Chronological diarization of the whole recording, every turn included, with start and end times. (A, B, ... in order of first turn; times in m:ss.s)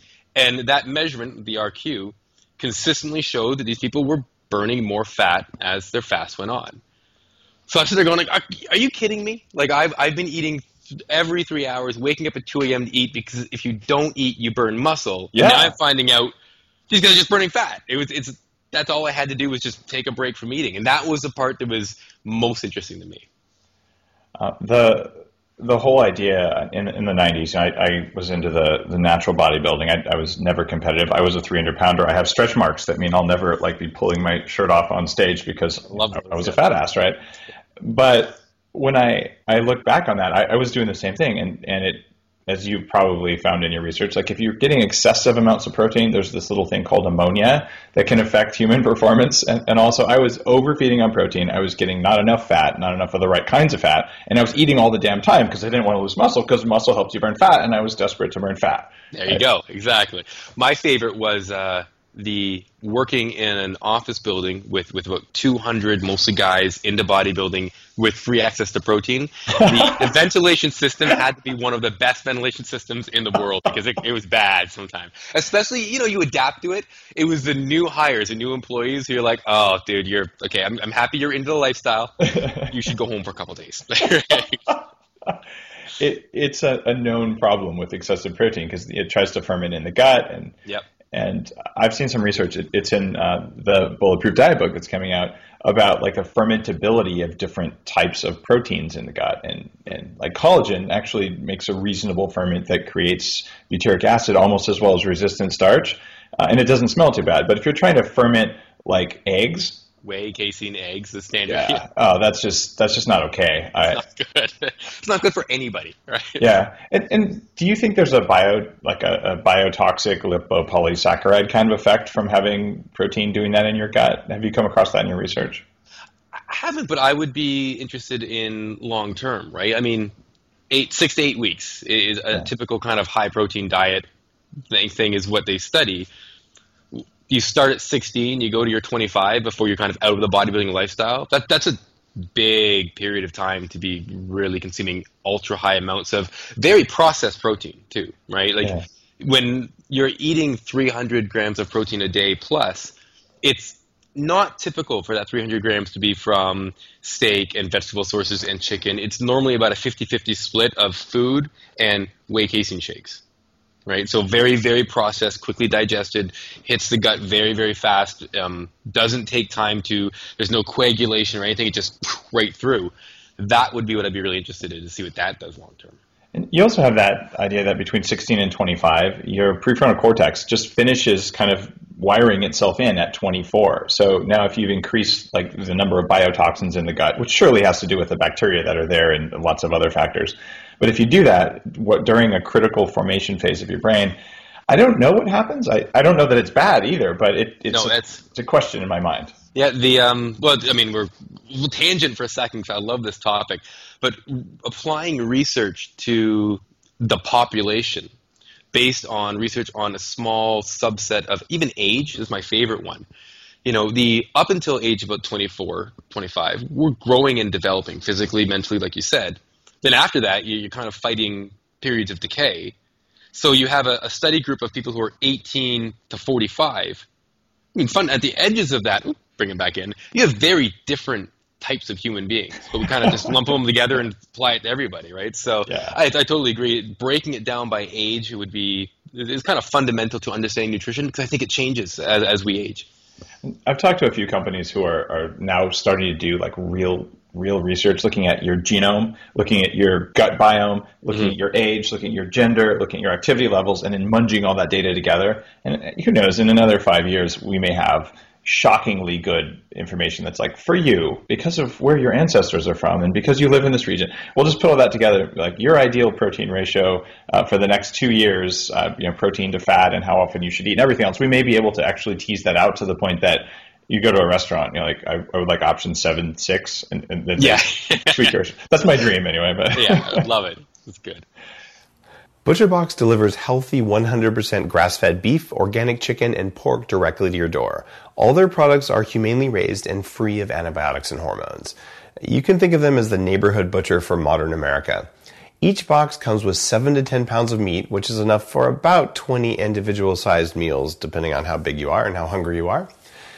0:00.4-0:06.8 A
0:07.7-0:16.3 A
0:15.3-0:15.8 B
0:16.9-0:23.2 A
0:24.4-0:37.2 B
0:35.9-0:36.6 A
0:37.8-0:59.4 B
0:59.1-1:24.8 A
1:09.8-1:10.1 B
1:22.3-1:22.7 B
1:26.0-1:30.6 B
1:31.1-1:49.8 B
1:50.0-1:51.8 A
1:51.5-1:54.0 B
1:53.8-1:56.5 A
1:56.4-2:05.6 B
2:06.3-2:10.1 A
2:10.7-2:14.1 A
2:14.7-2:16.1 A
2:16.9-2:43.2 A
2:43.9-2:56.0 A
2:56.3-3:19.4 B
3:17.7-3:18.2 A
3:19.6-3:28.1 A
3:28.7-3:33.1 A
3:33.6-3:42.8 A
3:43.3-3:47.0 A
3:47.8-4:02.9 A
3:53.0-3:53.3 B
3:55.7-3:56.0 B
4:03.4-4:40.3 B
4:37.4-4:38.3 A
4:39.7-4:41.3 A
4:42.4-4:55.1 C
4:55.6-5:02.9 C